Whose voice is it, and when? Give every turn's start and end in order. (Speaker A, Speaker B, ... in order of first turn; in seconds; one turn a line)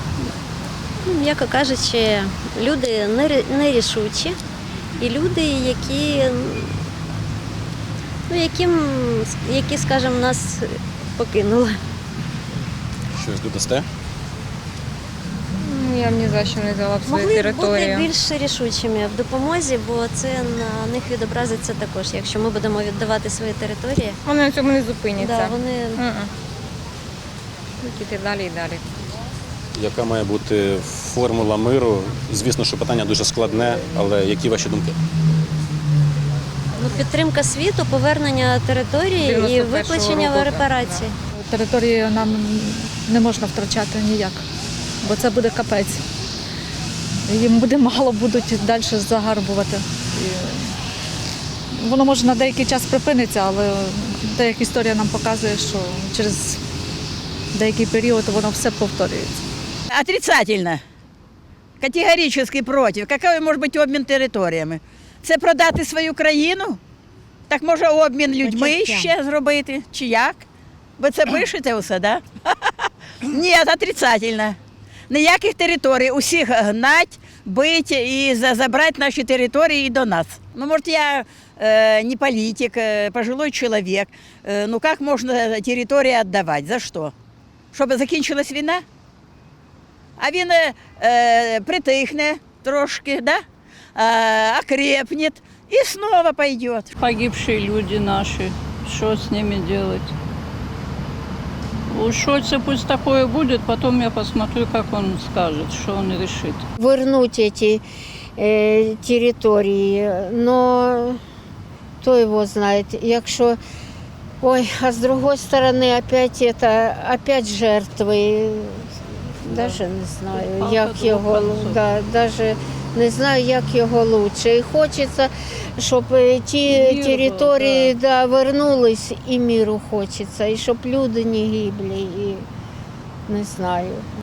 Speaker A: 1.0-4.4
Speaker A: 5.0-6.8
Speaker A: 8.3-11.8
Speaker B: 13.1-13.8
Speaker C: 15.6-18.1
Speaker A: 17.1-24.2
Speaker C: 24.2-26.3
Speaker A: 25.2-26.0
Speaker C: 27.8-28.8
Speaker B: 29.8-35.0
Speaker A: 36.8-41.1
Speaker C: 39.2-41.1
Speaker D: 41.3-44.4
Speaker D: 45.0-46.0
Speaker D: 47.3-50.7
Speaker D: 51.8-56.6
Speaker D: 57.5-59.4
Speaker E: 59.9-60.8
Speaker E: 61.8-66.8
Speaker E: 67.5-70.5
Speaker F: 68.4-69.1
Speaker E: 71.0-74.6
Speaker E: 75.1-87.1
Speaker E: 87.7-88.8
Speaker E: 90.2-93.4
Speaker E: 93.9-96.9
Speaker G: 97.0-100.1
Speaker G: 101.9-106.6
Speaker F: 106.8-107.8
Speaker F: 108.4-111.2
Speaker F: 112.0-113.6
Speaker F: 114.4-132.4
Speaker G: 120.3-121.7
Speaker G: 126.7-127.9
Speaker F: 133.3-134.0